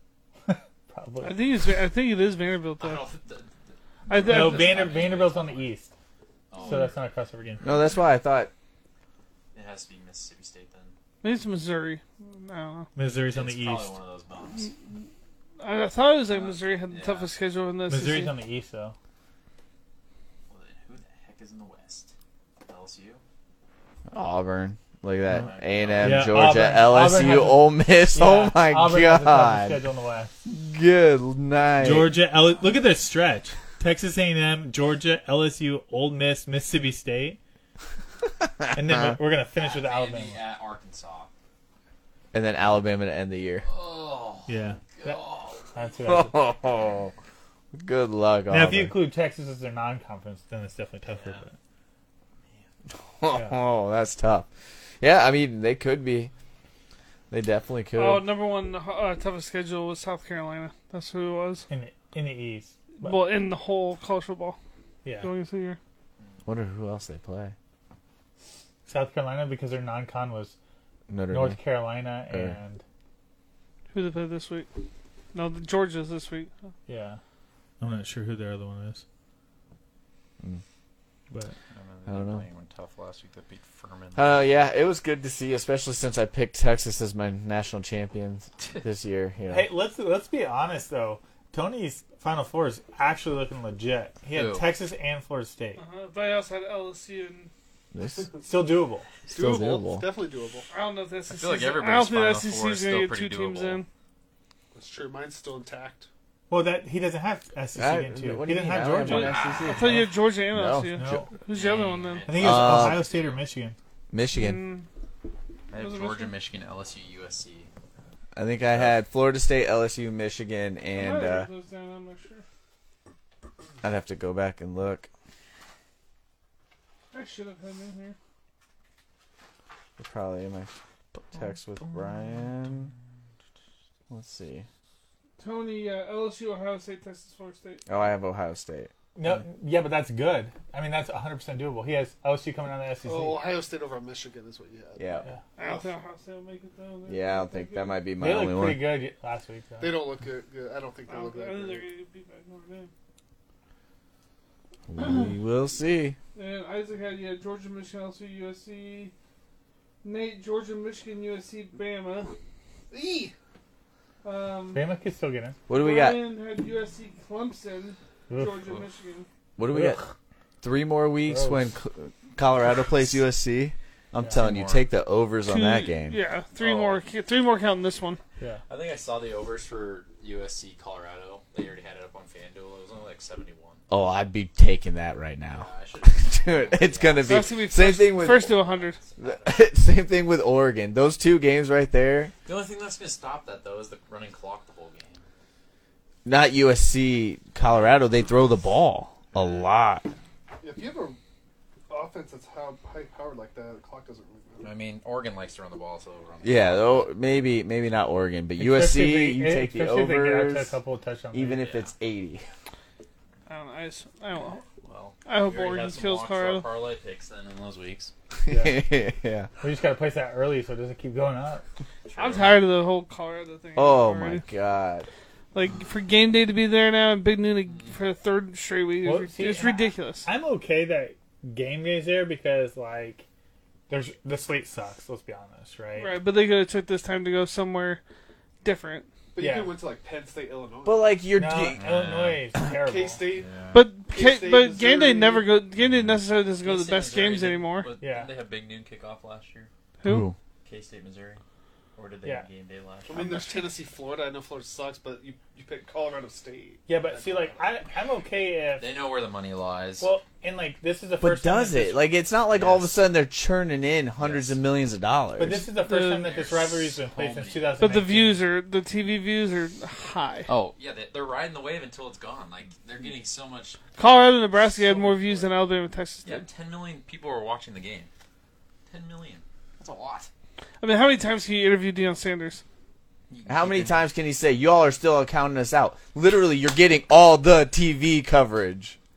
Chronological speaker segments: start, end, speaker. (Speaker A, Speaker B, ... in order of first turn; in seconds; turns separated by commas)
Speaker A: 0.5-1.7, Speaker B: 1.2-3.1, Speaker C: 2.8-5.7, Speaker B: 4.1-5.0, Speaker A: 4.1-5.9, Speaker C: 6.5-7.0, Speaker A: 6.6-7.8, Speaker D: 7.6-8.5, Speaker C: 9.5-10.9, Speaker B: 11.2-12.9, Speaker A: 12.9-13.9, Speaker C: 13.3-14.7, Speaker B: 15.6-18.4, Speaker C: 16.3-17.3, Speaker A: 17.9-18.9, Speaker C: 20.5-23.2, Speaker D: 24.1-29.9, Speaker C: 25.3-26.6, Speaker A: 26.0-30.4, Speaker D: 30.4-32.2, Speaker A: 31.8-37.4, Speaker D: 38.4-39.2, Speaker A: 38.7-40.4, Speaker C: 39.6-41.3, Speaker D: 42.3-43.7, Speaker C: 43.6-45.9, Speaker A: 44.5-45.2, Speaker A: 45.7-46.5, Speaker D: 46.0-47.1, Speaker D: 47.7-49.0, Speaker A: 48.5-51.5, Speaker C: 51.1-51.4, Speaker D: 53.2-54.5, Speaker A: 53.3-53.6, Speaker D: 55.0-56.3, Speaker D: 57.3-58.3, Speaker B: 58.0-61.7, Speaker A: 61.7-63.2, Speaker B: 63.0-64.6, Speaker A: 65.0-65.3, Speaker B: 65.2-65.8, Speaker C: 66.2-66.5, Speaker D: 66.5-67.5, Speaker A: 68.9-70.6, Speaker D: 71.1-71.6, Speaker A: 71.3-72.8, Speaker B: 73.9-74.7, Speaker B: 75.3-76.5, Speaker A: 76.9-77.2, Speaker A: 77.8-79.0, Speaker A: 81.3-81.6, Speaker C: 81.7-84.5, Speaker D: 82.1-82.5, Speaker D: 84.2-89.7, Speaker C: 88.6-88.8, Speaker A: 89.5-95.8, Speaker C: 94.3-94.7, Speaker B: 95.8-97.5, Speaker D: 97.9-98.3, Speaker A: 98.4-99.1, Speaker D: 99.3-100.1, Speaker E: 99.3-100.7, Speaker B: 100.7-103.9, Speaker C: 101.3-103.8, Speaker E: 104.7-106.1, Speaker A: 106.5-110.0, Speaker D: 107.8-111.2, Speaker C: 109.0-110.0, Speaker B: 109.2-112.3, Speaker A: 111.0-111.3, Speaker C: 111.5-113.5, Speaker A: 112.3-113.8, Speaker D: 112.4-113.0, Speaker D: 114.1-114.6, Speaker B: 114.3-114.9, Speaker C: 115.7-117.7, Speaker B: 115.7-116.3, Speaker D: 118.3-121.5, Speaker C: 118.7-119.0, Speaker B: 120.9-122.5, Speaker D: 123.8-125.1, Speaker B: 127.1-128.2, Speaker D: 130.0-132.9, Speaker D: 134.1-134.7, Speaker B: 135.4-137.9, Speaker D: 137.9-139.4, Speaker A: 139.2-143.5, Speaker E: 143.0-145.8, Speaker D: 145.0-145.3, Speaker B: 145.6-148.1, Speaker D: 147.1-148.9, Speaker A: 148.2-150.1, Speaker E: 149.8-151.8, Speaker B: 151.1-152.9, Speaker D: 154.9-156.2, Speaker B: 155.0-155.3, Speaker B: 156.3-159.1, Speaker B: 160.0-162.3, Speaker E: 162.9-163.3, Speaker B: 164.2-164.9, Speaker A: 164.7-165.6, Speaker D: 165.7-166.2, Speaker B: 165.7-169.3, Speaker A: 168.3-168.7, Speaker D: 169.6-170.0, Speaker A: 169.7-170.1, Speaker D: 170.6-176.2, Speaker A: 171.3-171.7, Speaker A: 174.2-174.5, Speaker C: 174.3-174.9, Speaker B: 175.5-178.2, Speaker C: 176.6-177.0, Speaker C: 178.7-183.8, Speaker D: 183.9-188.6, Speaker C: 185.5-189.7, Speaker B: 187.2-189.0, Speaker D: 189.2-192.3, Speaker C: 192.4-195.2, Speaker D: 196.2-200.1, Speaker C: 199.3-199.7, Speaker E: 200.6-201.2, Speaker E: 201.9-204.7, Speaker C: 204.6-207.2, Speaker D: 206.4-210.8, Speaker A: 208.6-211.8, Speaker D: 211.3-212.4, Speaker C: 211.6-211.9, Speaker B: 213.5-214.7, Speaker C: 214.8-218.1, Speaker B: 215.2-216.7, Speaker D: 218.4-219.5, Speaker A: 218.5-218.8, Speaker A: 219.6-221.6, Speaker C: 222.1-222.6, Speaker B: 222.2-224.4, Speaker D: 223.8-225.1, Speaker B: 225.5-230.3, Speaker C: 227.7-228.0, Speaker A: 229.0-233.3, Speaker A: 233.9-236.2, Speaker B: 235.9-238.0, Speaker B: 238.6-239.1, Speaker E: 239.3-241.2, Speaker A: 239.4-239.8, Speaker D: 240.8-241.9, Speaker A: 241.3-243.2, Speaker C: 241.8-242.5, Speaker E: 242.8-243.6, Speaker C: 243.3-243.9, Speaker B: 243.7-247.9, Speaker E: 244.1-245.5, Speaker C: 246.6-249.7, Speaker A: 248.0-248.3, Speaker B: 250.0-250.3, Speaker D: 250.1-250.3, Speaker C: 250.6-251.4, Speaker C: 251.9-253.4, Speaker E: 253.1-257.7, Speaker B: 253.1-253.7, Speaker A: 256.9-258.9, Speaker C: 258.8-260.1, Speaker A: 260.0-262.1, Speaker D: 261.2-265.6, Speaker C: 262.5-263.0, Speaker C: 264.2-264.6, Speaker A: 265.4-268.4, Speaker B: 265.8-266.3, Speaker C: 266.1-267.9, Speaker B: 267.8-270.5, Speaker C: 270.5-273.9, Speaker B: 273.9-276.4, Speaker C: 274.6-275.5, Speaker C: 276.2-278.1, Speaker C: 278.9-280.3, Speaker B: 280.8-282.6, Speaker C: 283.3-284.0, Speaker D: 283.5-289.0